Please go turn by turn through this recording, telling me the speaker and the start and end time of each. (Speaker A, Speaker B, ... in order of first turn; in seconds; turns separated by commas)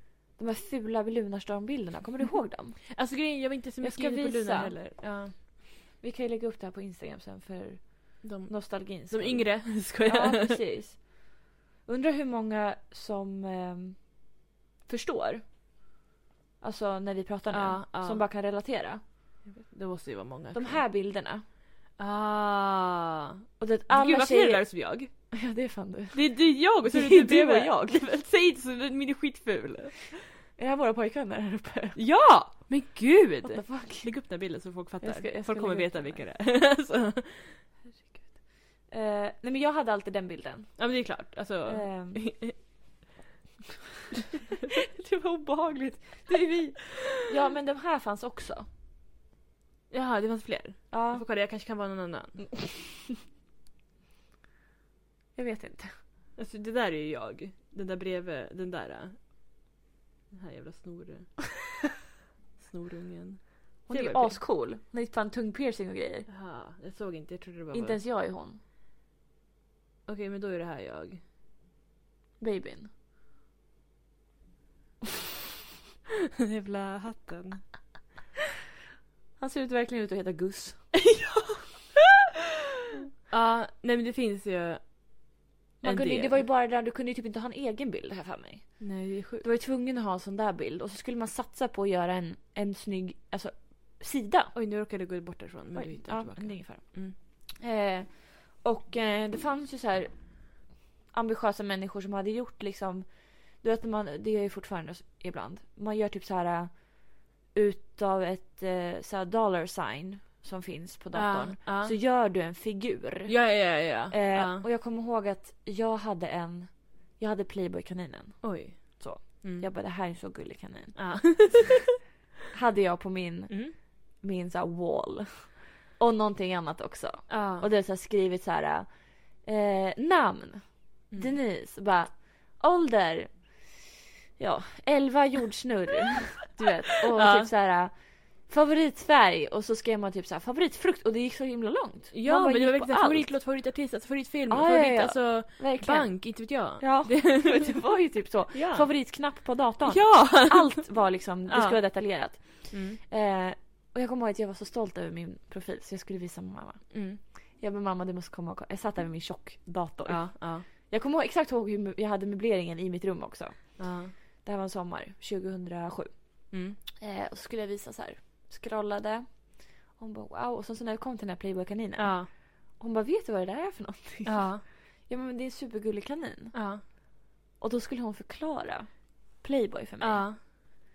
Speaker A: 0.3-2.9, Speaker B: 2.9-5.4, Speaker A: 3.8-4.8, Speaker A: 6.0-14.2, Speaker B: 8.2-10.6, Speaker A: 14.9-15.4, Speaker A: 16.6-19.0, Speaker B: 17.5-18.2, Speaker B: 19.5-20.8, Speaker A: 20.5-21.4, Speaker B: 22.0-25.1, Speaker A: 23.6-24.7, Speaker A: 25.3-28.0, Speaker B: 26.1-30.1, Speaker A: 30.6-32.0, Speaker B: 31.9-37.6, Speaker A: 33.4-34.1, Speaker A: 35.0-36.2, Speaker A: 37.9-40.8, Speaker B: 40.8-42.6, Speaker A: 41.7-42.2, Speaker A: 44.7-48.7, Speaker B: 49.9-52.5, Speaker A: 50.9-51.2, Speaker A: 55.4-56.0, Speaker B: 56.4-59.2, Speaker B: 60.3-61.3, Speaker B: 62.6-64.4, Speaker A: 63.9-66.3, Speaker B: 66.3-68.0, Speaker A: 67.7-68.6, Speaker B: 70.1-71.2, Speaker A: 72.4-72.9, Speaker B: 76.4-77.6, Speaker A: 79.4-80.9, Speaker B: 81.0-81.7, Speaker B: 83.3-84.9, Speaker A: 85.8-94.5, Speaker B: 85.8-86.5, Speaker B: 88.8-89.4, Speaker B: 94.5-97.2, Speaker A: 95.8-97.0, Speaker A: 97.6-100.2, Speaker A: 101.1-113.4, Speaker B: 111.1-111.9, Speaker B: 113.3-114.7, Speaker A: 114.1-121.5, Speaker B: 118.4-119.7, Speaker B: 121.0-121.8, Speaker A: 122.5-133.8, Speaker B: 123.5-123.7, Speaker B: 127.3-127.7, Speaker A: 134.4-143.4, Speaker B: 137.1-137.5, Speaker B: 142.1-147.8, Speaker A: 144.5-156.9, Speaker B: 148.5-148.9, Speaker B: 149.9-150.8, Speaker B: 151.5-151.8, Speaker B: 152.7-153.0, Speaker B: 156.9-157.2, Speaker A: 157.6-163.8, Speaker B: 160.1-160.7, Speaker B: 163.8-164.1, Speaker A: 164.4-166.2, Speaker B: 166.5-166.8, Speaker A: 167.0-176.6, Speaker B: 172.0-172.3, Speaker B: 174.2-174.6, Speaker B: 176.5-176.8, Speaker A: 177.6-180.3, Speaker B: 180.0-180.4